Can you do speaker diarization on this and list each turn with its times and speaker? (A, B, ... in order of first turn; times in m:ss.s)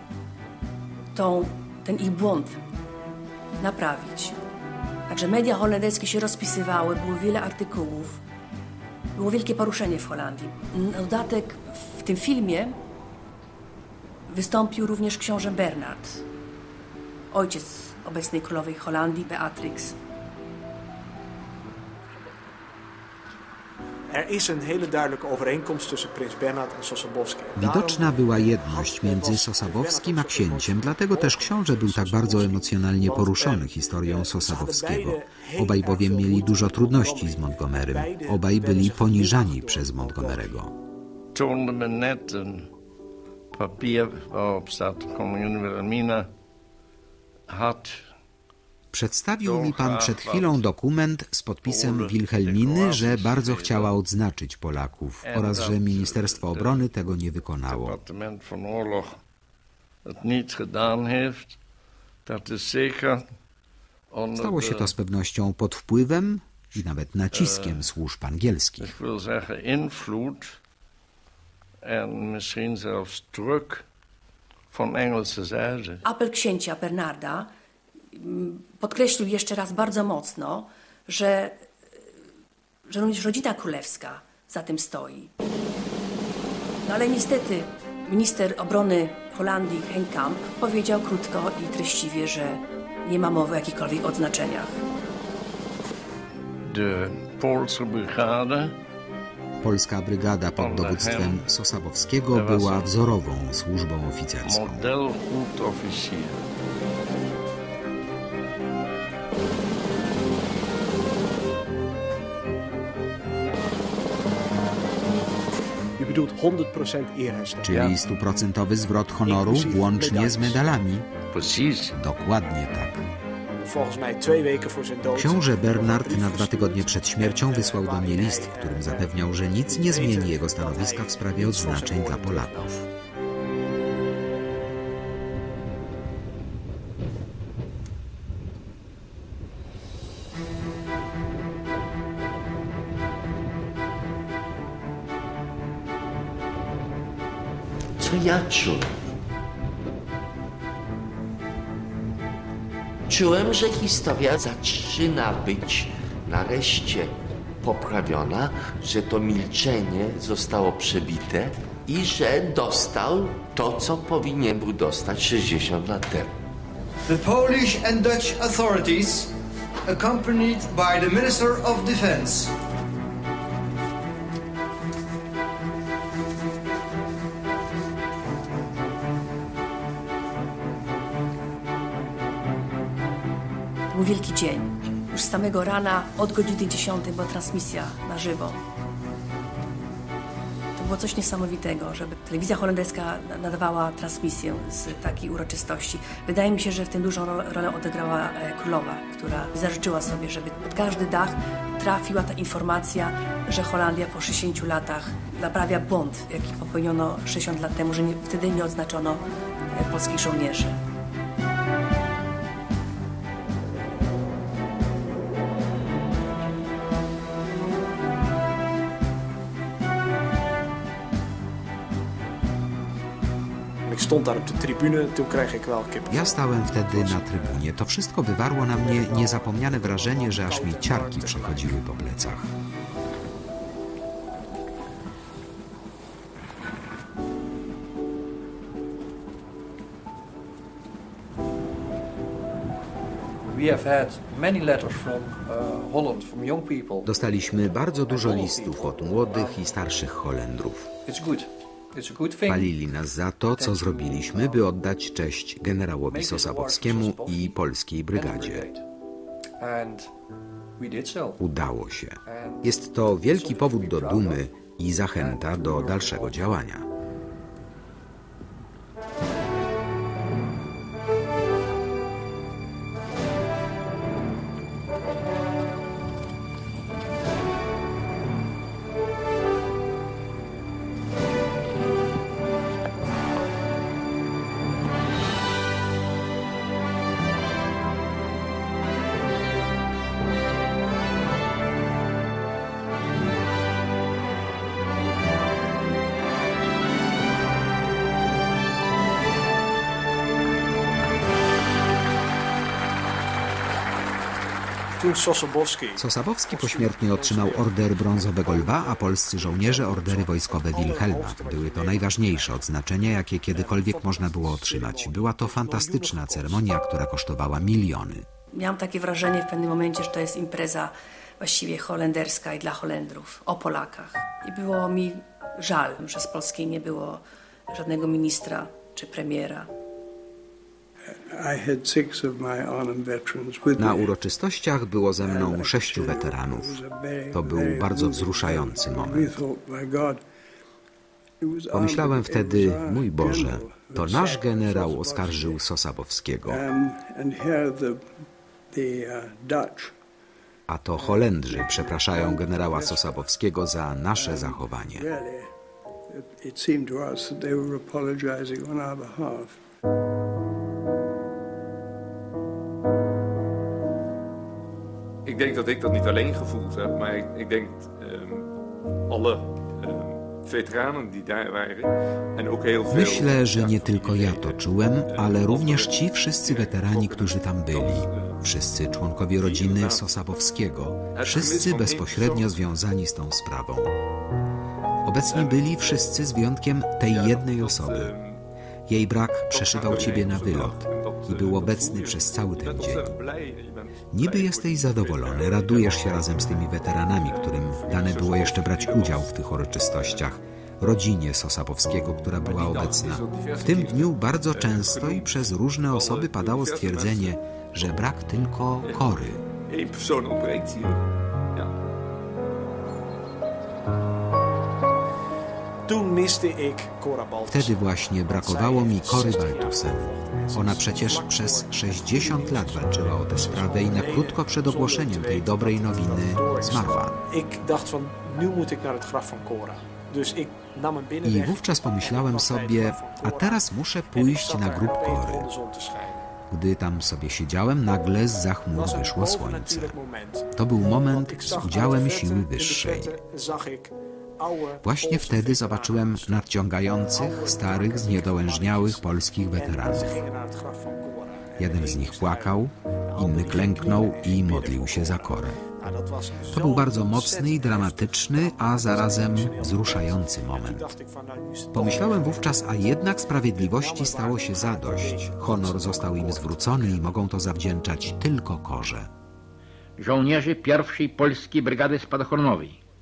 0:01.1-0:02.6 A
0:03.6-0:04.4 A
0:05.1-0:08.2 A
0:09.2-0:12.8 A
0:14.3-0:16.2 A
0:17.3-0:20.0 A
0:24.1-0:40.5 B
0:27.6-0:40.7 C
0:41.3-0:42.7 D
0:43.5-0:46.3 D
0:47.5-0:48.1 D
0:48.9-0:58.0 C
0:49.4-0:50.7 D
0:51.6-0:54.0 D
0:55.2-0:56.9 D
0:57.7-0:59.2 D
1:00.1-1:01.6 D
1:02.3-1:03.2 D
1:04.1-1:04.9 D
1:04.4-1:08.9 C
1:07.3-1:07.9 D
1:08.8-1:10.6 D
1:11.8-1:13.8 D
1:14.7-1:16.0 D
1:16.1-1:17.5 A
1:18.1-1:21.7 A
1:22.9-1:25.3 A
1:26.8-1:34.8 A
1:36.7-1:38.8 D
1:39.6-1:44.9 C
1:40.5-1:41.5 D
1:42.3-1:43.1 D
1:44.4-1:46.4 D
1:56.0-1:57.9 B
1:57.6-2:01.1 C
1:59.2-2:00.6 B
2:01.3-2:02.0 D
2:01.9-2:03.0 C
2:03.6-2:09.2 B
2:05.1-2:12.8 C
2:09.7-2:12.8 B
2:28.0-2:29.0 E
2:33.1-2:46.3 E
2:47.1-2:49.3 F
2:49.9-2:52.6 F
3:03.9-3:08.6 A
3:10.8-3:30.8 A
3:43.9-3:47.6 B
3:46.1-3:52.5 C
3:48.7-3:51.8 B
4:03.5-4:09.8 G
4:07.0-4:10.9 C
4:11.0-4:12.8 G
4:12.5-4:18.7 C
4:13.5-4:14.7 G
4:16.1-4:17.6 G
4:18.1-4:18.8 G
4:19.6-4:20.1 G
4:20.8-4:21.4 G
4:21.4-4:26.9 C
4:22.3-4:24.4 G
4:25.2-4:26.6 G
5:05.0-5:16.7 B
5:06.0-5:18.3 C
5:18.6-5:29.7 A
5:31.1-5:34.1 H
5:33.8-5:36.8 C
5:35.2-5:40.2 H
5:37.3-5:39.4 C
5:41.4-5:45.6 H
5:41.7-5:46.6 C
5:46.5-5:49.9 H
5:50.7-5:55.1 C
5:51.0-5:53.2 H
5:54.2-5:55.5 H
5:56.1-5:59.6 H
6:05.2-6:08.5 I
6:09.1-6:18.4 I
6:12.9-6:23.9 C
6:19.4-6:20.0 I
6:21.2-6:22.6 I
6:25.0-6:28.1 C
6:25.3-6:26.2 I
6:27.0-6:28.4 I
6:28.9-6:33.2 C
6:29.5-6:40.3 I
6:34.1-6:49.4 C
6:42.4-6:47.4 I
6:48.8-6:49.1 I
6:49.7-6:51.7 I
6:55.9-7:16.3 B
6:57.5-7:07.2 C
7:11.2-7:15.5 C
7:16.5-7:20.0 C
7:18.7-7:20.5 B
7:20.6-7:23.2 C
7:21.0-7:26.4 B
7:24.8-7:30.2 C
7:27.1-7:43.0 B
7:31.6-7:35.6 C
7:36.5-7:41.0 C
7:41.7-7:49.1 C
7:43.5-7:47.2 B
7:50.0-7:52.8 J